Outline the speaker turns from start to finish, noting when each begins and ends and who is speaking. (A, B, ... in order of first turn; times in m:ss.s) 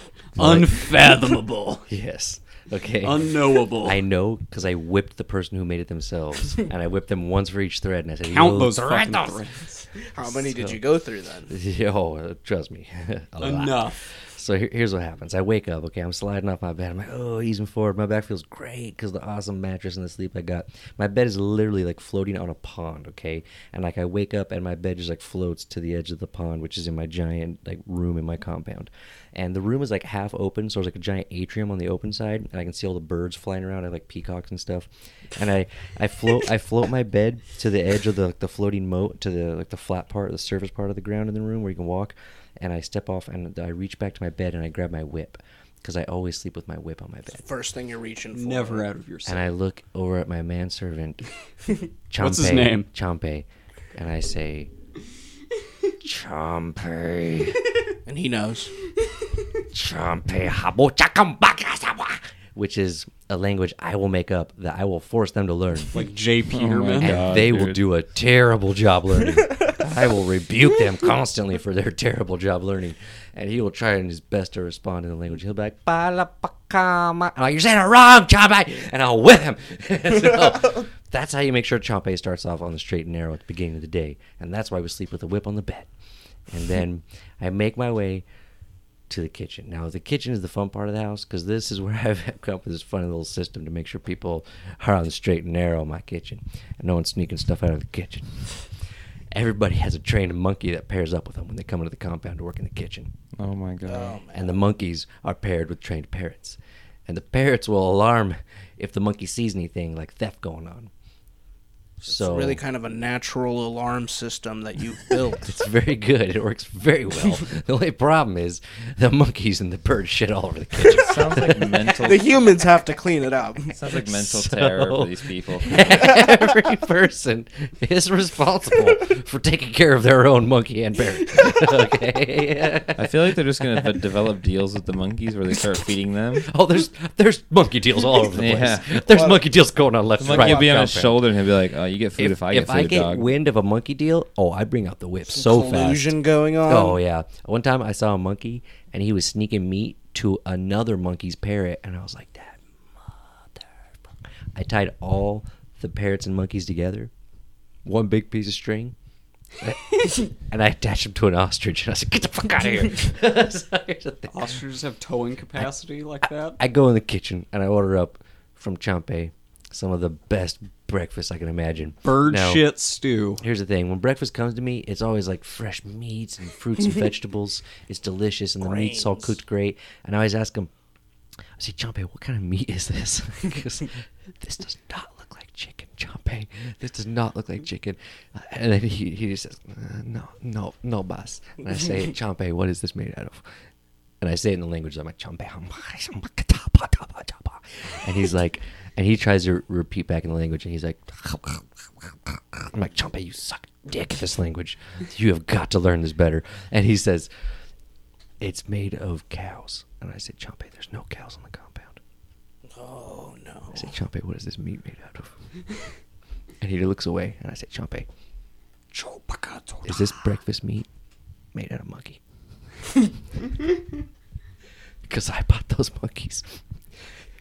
0:00.4-0:01.0 A
0:00.4-0:01.9 B
0:01.9-0:09.4 A
0:03.0-0:04.0 B
0:08.3-0:09.9 B
0:10.1-0:11.5 C
0:10.2-0:10.8 A
0:11.5-0:47.4 A
0:13.4-0:14.0 B
0:47.4-0:48.9 C
0:48.3-0:49.5 B
0:49.3-0:51.2 A
0:52.1-0:54.7 A
0:52.2-0:52.9 B
0:56.0-0:57.6 A
0:58.1-0:58.7 C
0:59.7-1:06.0 A
1:05.9-1:07.2 B
1:06.5-1:07.8 D
1:07.0-1:25.9 A
1:26.5-1:28.2 A
1:29.1-1:43.1 A
1:43.4-1:44.2 D
1:43.9-1:44.6 C
1:44.3-1:50.9 A
1:52.0-1:52.6 A
1:52.0-1:55.5 C
1:55.4-2:01.7 A
2:00.9-2:02.3 D
2:01.9-2:03.8 C
2:03.7-2:05.8 D
2:03.9-2:13.2 A
2:13.0-2:16.5 D
2:16.5-2:21.3 A
2:18.3-2:19.0 D
2:19.1-2:19.4 C
2:20.2-2:23.3 D
2:20.3-2:20.7 C
2:22.2-2:26.1 A
2:25.3-2:27.0 C
2:26.7-2:33.9 A
2:34.6-2:37.1 A
2:37.8-2:39.0 A
2:39.6-2:44.5 A
2:44.3-2:46.6 B
2:46.2-2:52.7 A
2:52.0-2:53.4 B
2:53.4-3:00.7 A
2:58.6-2:59.3 C
3:01.6-3:13.4 A
3:14.2-3:27.3 A
3:28.4-3:32.0 A
3:32.7-3:33.9 C
3:33.7-3:35.3 A
3:36.6-3:38.1 A
3:38.9-3:39.9 B
3:39.8-3:40.9 A
3:41.5-3:42.2 A
3:45.0-3:47.1 A